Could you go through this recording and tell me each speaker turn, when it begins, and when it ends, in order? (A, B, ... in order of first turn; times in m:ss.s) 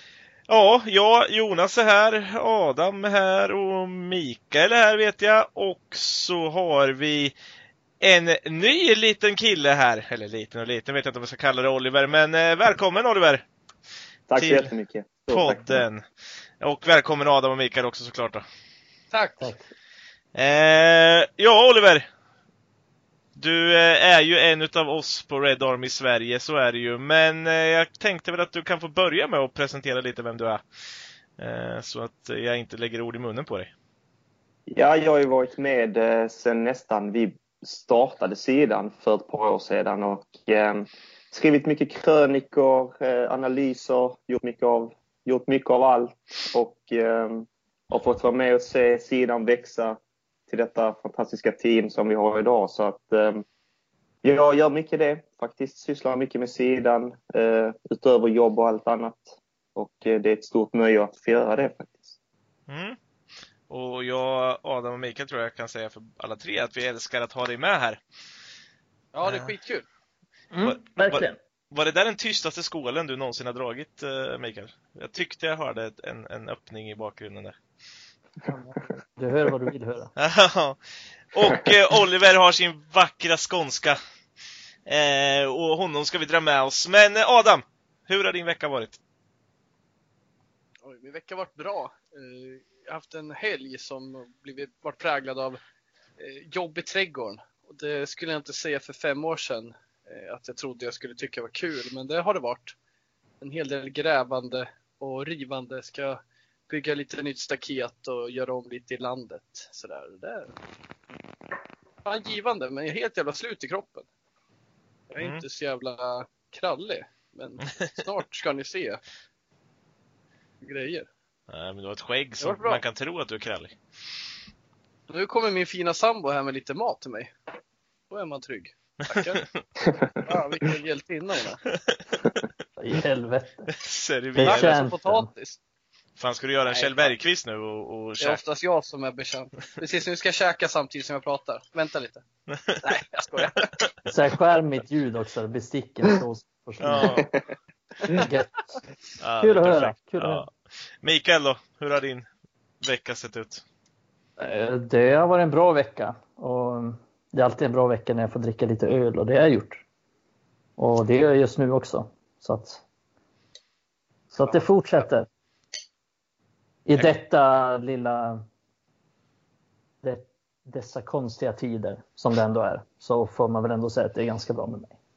0:00.5-0:07.3 A
0:08.0-0:13.4 A
0:14.3-0:15.8 B
0:14.4-0:14.7 A
0:15.3-0:16.0 A
0:16.6-0:18.4 A
0:19.1-0:19.5 C
0:19.4-0:19.7 D
0:20.3-0:22.0 A
0:23.4-0:30.6 A
0:31.4-0:33.7 A
0:34.7-0:53.4 B
0:54.2-1:02.1 B
1:02.7-1:03.0 A
1:03.7-1:08.0 A
1:09.1-1:09.8 C
1:09.2-1:09.5 A
1:10.5-1:11.4 D
1:10.6-1:17.6 A
1:18.5-1:20.1 D
1:20.2-1:20.8 A
1:21.3-1:24.0 A
1:24.9-1:29.0 A
1:30.8-1:35.6 C
1:36.2-1:42.8 C
1:43.4-1:50.5 C
1:52.0-1:54.0 C
1:55.1-1:59.0 C
2:00.6-2:01.1 C
2:01.5-2:03.8 A
2:02.4-2:02.8 C
2:05.1-2:07.3 C
2:08.1-2:09.4 C
2:09.1-2:09.4 A
2:10.2-2:11.6 C
2:11.7-2:12.1 A
2:12.8-2:13.7 D
2:13.7-2:14.8 A
2:14.4-2:15.3 D
2:14.4-2:15.6 C
2:16.2-2:18.4 A
2:16.7-2:17.2 C
2:18.2-2:22.2 C
2:22.5-2:23.8 A
2:22.8-2:23.8 C
2:24.1-2:27.2 D
2:26.8-2:27.3 A
2:28.1-2:28.8 D
2:29.2-2:30.5 A
2:29.4-2:30.4 D
2:31.0-2:32.3 A
2:32.8-2:33.6 A
2:34.4-2:39.8 D
2:40.8-2:42.8 D
2:44.3-2:45.3 D
2:46.9-2:48.4 D
2:50.0-2:55.0 D